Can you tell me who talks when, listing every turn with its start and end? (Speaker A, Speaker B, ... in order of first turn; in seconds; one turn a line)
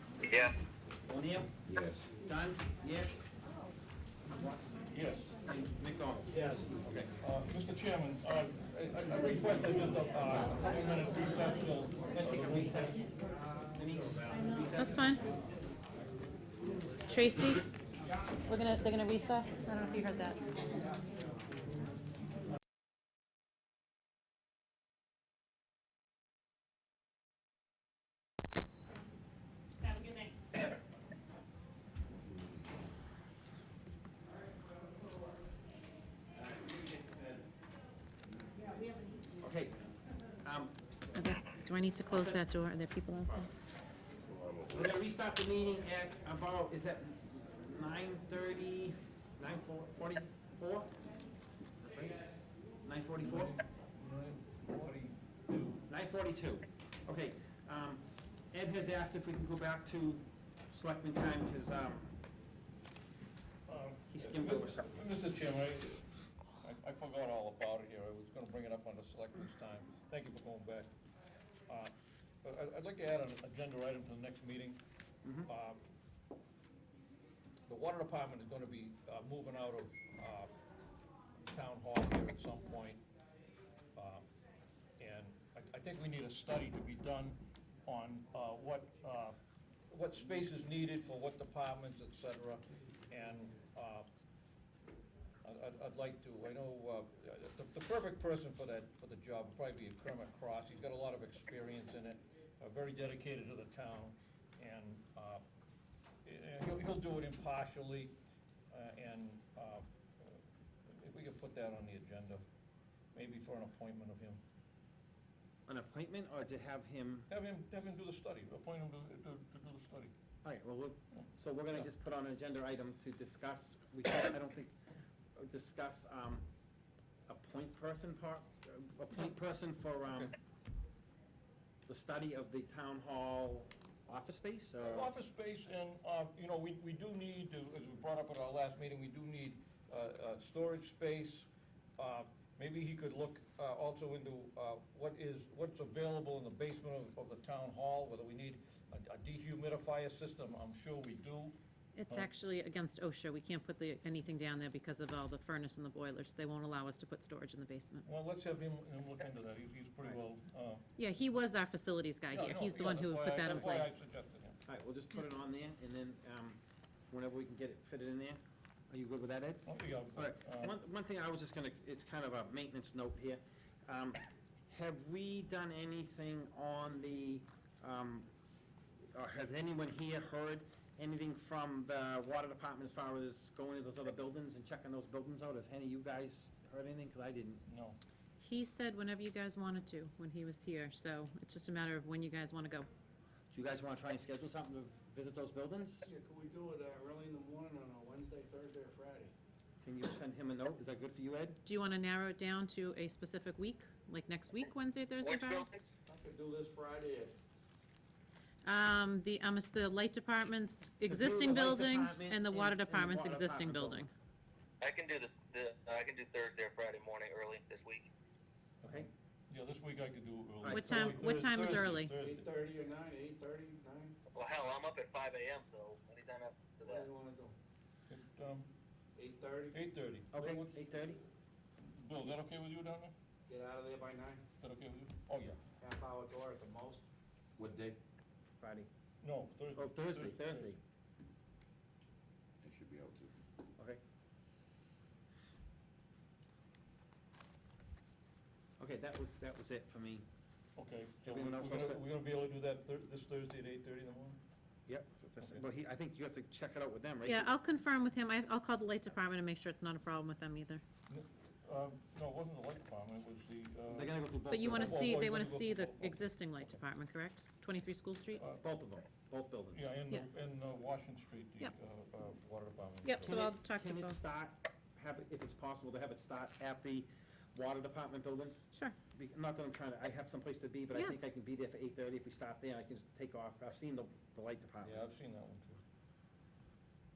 Speaker A: 0.2-0.6
Speaker B: 1.1-1.5
Speaker C: 1.6-2.1
Speaker B: 2.2-3.2
Speaker B: 4.3-4.8
Speaker D: 4.9-5.3
Speaker B: 5.4-7.1
Speaker E: 6.3-6.7
Speaker D: 7.2-13.0
Speaker B: 12.1-13.1
Speaker B: 13.7-15.2
Speaker F: 14.7-15.2
Speaker F: 17.1-17.6
Speaker F: 18.5-20.4
Speaker F: 29.9-30.3
Speaker B: 39.4-39.7
Speaker B: 40.4-40.7
Speaker F: 41.1-43.5
Speaker B: 42.1-42.4
Speaker C: 44.3-44.9
Speaker B: 44.7-50.9
Speaker B: 51.9-52.2
Speaker B: 52.8-53.5
Speaker D: 53.2-55.8
Speaker B: 55.9-62.1
Speaker D: 63.7-66.0
Speaker B: 64.1-64.9
Speaker D: 66.6-70.9
Speaker D: 72.4-74.8
Speaker B: 75.2-75.5
Speaker D: 75.5-75.8
Speaker D: 77.7-80.5
Speaker D: 81.5-83.0
Speaker D: 84.0-84.2
Speaker D: 85.0-89.3
Speaker D: 89.9-94.1
Speaker D: 95.4-105.4
Speaker D: 106.2-108.1
Speaker D: 108.7-110.4
Speaker D: 111.0-112.4
Speaker D: 113.1-114.4
Speaker B: 115.7-117.3
Speaker D: 117.3-120.1
Speaker B: 120.4-124.7
Speaker D: 121.1-121.9
Speaker B: 125.3-126.5
Speaker B: 127.3-130.3
Speaker B: 131.9-135.1
Speaker D: 134.8-151.6
Speaker F: 151.9-158.1
Speaker D: 158.0-160.8
Speaker F: 161.0-164.0
Speaker D: 162.3-164.6
Speaker B: 164.7-166.6
Speaker B: 167.1-178.3
Speaker D: 169.6-170.8
Speaker B: 179.1-187.6
Speaker D: 187.7-188.0
Speaker F: 188.4-192.9
Speaker B: 193.5-196.1
Speaker E: 196.0-199.3
Speaker B: 199.8-201.6
Speaker F: 201.6-205.7
Speaker A: 205.2-205.9
Speaker E: 206.1-207.3
Speaker F: 208.6-214.1
Speaker B: 211.1-214.1
Speaker A: 214.8-218.1
Speaker B: 218.8-219.1
Speaker D: 218.8-222.5
Speaker B: 220.6-221.2
Speaker F: 220.7-222.1
Speaker E: 222.1-224.2
Speaker A: 224.3-227.1
Speaker E: 226.8-227.5
Speaker D: 228.1-228.7
Speaker E: 229.2-229.8
Speaker D: 229.7-231.2
Speaker B: 230.3-231.2
Speaker D: 231.8-233.1
Speaker E: 233.5-234.4
Speaker D: 234.6-235.6
Speaker E: 235.8-237.0
Speaker C: 237.6-238.0
Speaker B: 238.6-238.9
Speaker D: 239.2-240.7
Speaker B: 239.8-240.8
Speaker C: 242.6-243.3
Speaker B: 248.8-250.2
Speaker D: 250.8-254.4
Speaker B: 251.2-252.0
Speaker B: 254.9-257.5
Speaker D: 255.2-255.6
Speaker F: 257.2-260.8
Speaker D: 261.1-264.1
Speaker B: 263.9-265.1
Speaker F: 264.5-268.4
Speaker D: 264.7-266.8
Speaker B: 268.6-269.9
Speaker D: 269.7-273.4
Speaker F: 273.0-274.2
Speaker B: 273.2-278.6
Speaker B: 279.1-285.1
Speaker D: 284.8-285.8